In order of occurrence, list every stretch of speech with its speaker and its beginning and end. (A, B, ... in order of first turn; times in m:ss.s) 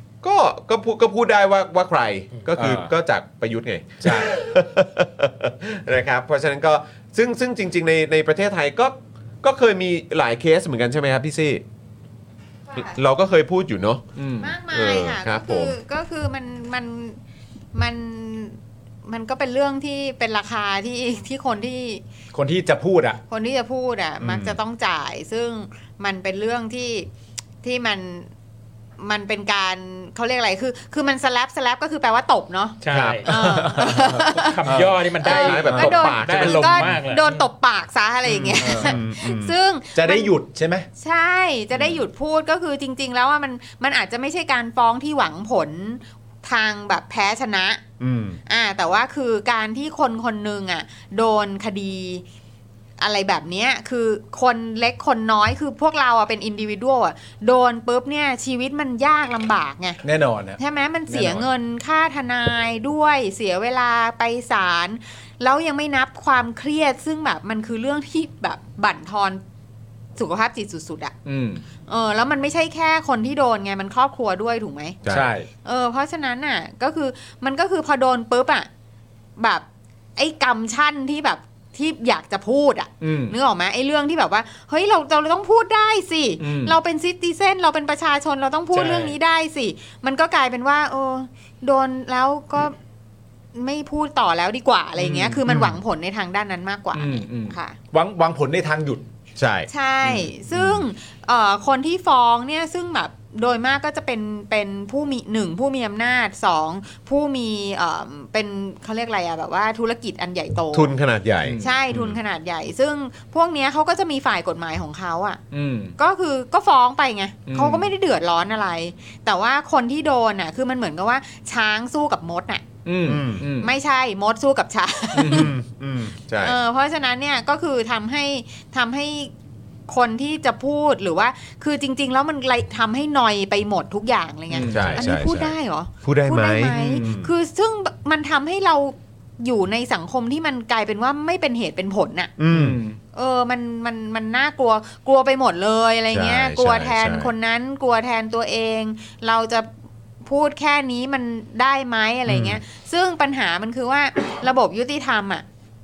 0:00.2-0:11.6 A
0:02.6-0:02.9 B
0:04.0-0:04.4 B
0:12.7-0:13.0 C
0:12.7-0:14.0 A
0:14.2-0:14.6 B
0:14.4-0:17.2 C
0:14.7-0:15.8 A
0:17.7-0:22.0 C
0:22.3-0:23.2 B
0:23.3-0:27.1 C
0:24.2-0:24.6 A
0:27.6-0:28.3 C
0:29.0-0:34.7 C
0:32.8-0:37.5 D
0:32.9-0:33.2 A
0:33.3-0:35.0 B
0:35.2-0:40.3 C
0:35.2-0:37.0 A
0:35.6-0:35.9 B
0:38.3-0:39.6 A
0:38.3-0:39.0 B
0:39.9-0:40.9 B
0:41.0-0:47.8 C
0:41.7-0:42.0 A
0:48.0-0:48.4 A
0:48.4-0:52.2 C
0:53.0-1:00.0 C
1:00.0-1:01.5 B
1:00.6-1:09.4 C
1:10.2-1:11.1 C
1:11.3-1:11.6 B
1:11.9-1:15.0 C
1:15.0-1:15.3 A
1:15.1-1:15.5 B
1:15.6-1:18.7 C
1:19.4-1:32.8 C
1:23.0-1:23.4 B
1:26.4-1:26.8 B
1:28.7-1:29.2 D
1:33.5-1:37.8 C
1:35.0-1:35.4 B
1:35.4-1:35.8 A
1:36.9-1:39.1 B
1:39.4-1:40.9 A
1:39.7-1:50.9 C
1:50.7-1:52.1 A
1:51.4-1:52.1 B
1:51.6-1:55.4 C
1:55.5-1:56.0 B
1:56.0-2:02.6 C
1:57.4-1:57.9 B
2:02.8-2:03.7 B
2:03.1-2:03.5 A
2:03.6-2:05.5 C
2:05.1-2:05.5 B
2:05.2-2:06.6 A
2:06.4-2:09.3 C
2:09.9-2:22.3 C
2:14.5-2:15.0 B
2:14.7-2:17.3 A
2:22.4-2:22.8 A
2:22.5-2:23.0 B
2:23.1-2:29.7 C
2:26.1-2:27.3 A
2:30.2-2:35.4 C
2:32.3-2:32.6 A